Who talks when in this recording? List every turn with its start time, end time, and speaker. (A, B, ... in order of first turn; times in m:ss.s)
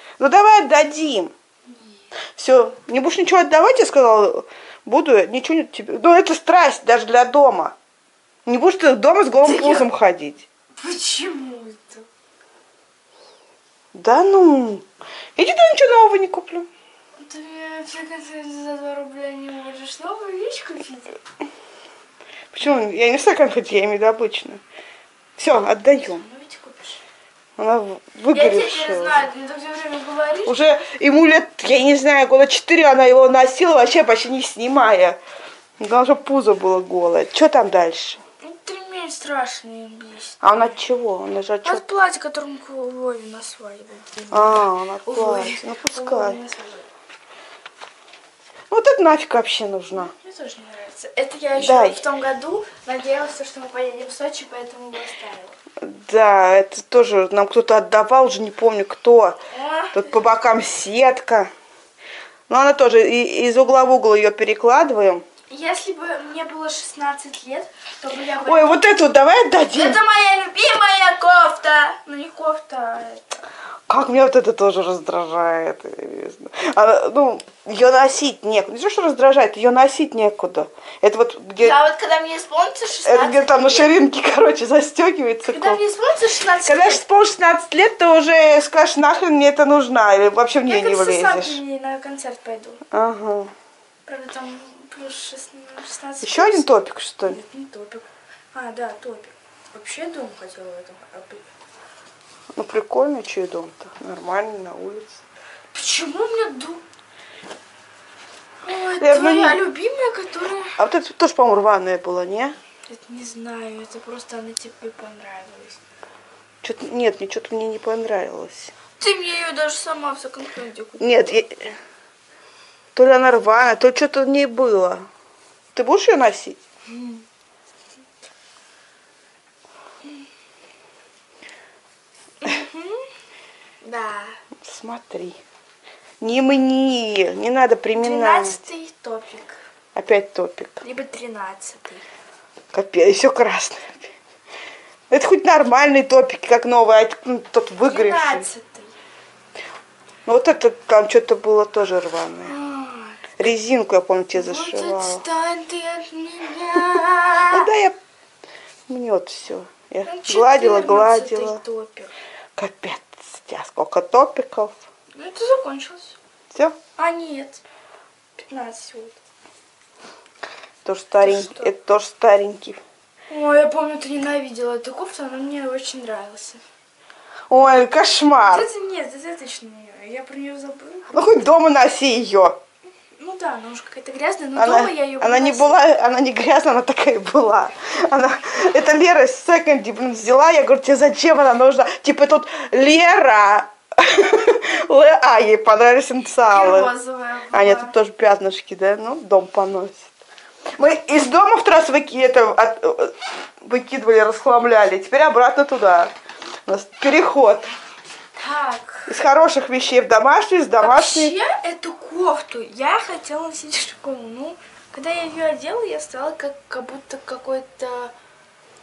0:00.2-0:01.3 A
0:02.4-0:07.8 A
0:08.5-0:10.4 A
0:09.4-0:09.9 B
0:10.8-0:12.1 B
0:13.9-0:14.8 A
0:15.4-0:16.7 A
0:17.2-0:21.2 B
0:22.5-0:24.6 A
0:25.4-0:26.2 A
0:25.9-0:27.0 B
0:27.6-0:29.2 A
0:28.3-0:30.6 B
0:30.4-0:35.2 A
0:35.8-0:38.2 A
0:38.4-0:40.7 B
0:40.4-0:41.8 A
0:41.6-0:46.9 B
0:44.3-0:46.4 A
0:48.7-0:50.1 A
0:50.0-0:55.6 B
0:51.6-0:52.0 A
0:55.8-0:59.4 A
0:59.5-1:00.2 B
0:59.9-1:01.5 A
1:02.5-1:05.2 A
1:05.5-1:08.9 B
1:08.4-1:10.0 A
1:09.7-1:13.4 B
1:13.9-1:21.8 A
1:21.6-1:24.0 B
1:23.0-1:25.8 A
1:25.5-1:27.0 B
1:26.6-1:31.6 A
1:30.7-1:32.8 B
1:32.9-1:33.5 A
1:34.1-1:36.7 B
1:36.2-1:37.4 A
1:37.2-1:41.5 B
1:42.6-1:45.2 A
1:45.7-1:46.8 B
1:48.6-1:50.8 B
1:49.0-1:49.6 A
1:50.8-1:52.6 A
1:52.9-1:55.8 B
1:56.6-1:58.7 A
1:59.0-2:01.3 B
2:01.0-2:01.8 A
2:02.9-2:05.1 A
2:05.7-2:06.6 A
2:06.9-2:07.2 B
2:12.4-2:13.1 B
2:13.8-2:14.4 B
2:14.6-2:15.4 A
2:16.2-2:18.6 A
2:18.0-2:19.6 B
2:20.0-2:20.8 A
2:20.8-2:22.1 B
2:22.7-2:24.1 A
2:25.1-2:28.5 A
2:27.8-2:29.0 B
2:30.2-2:32.6 A
2:32.4-2:33.2 B
2:33.4-2:35.2 A
2:34.3-2:37.7 B
2:37.3-2:38.0 A
2:38.9-2:41.6 A
2:40.0-2:42.1 B
2:42.6-2:44.7 A
2:45.1-2:46.2 B
2:47.0-2:47.6 B
2:48.4-2:49.2 B
2:50.8-2:52.8 A
2:51.2-2:51.7 B
2:53.3-2:56.6 B
2:57.5-2:58.7 A
2:58.5-3:01.1 B
3:01.1-3:02.6 A
3:03.2-3:05.9 B
3:04.6-3:16.9 A
3:16.5-3:17.9 B
3:17.5-3:20.1 A
3:20.8-3:26.1 A
3:26.7-3:27.8 A
3:28.3-3:29.1 B
3:29.1-3:31.3 A
3:30.8-3:38.1 B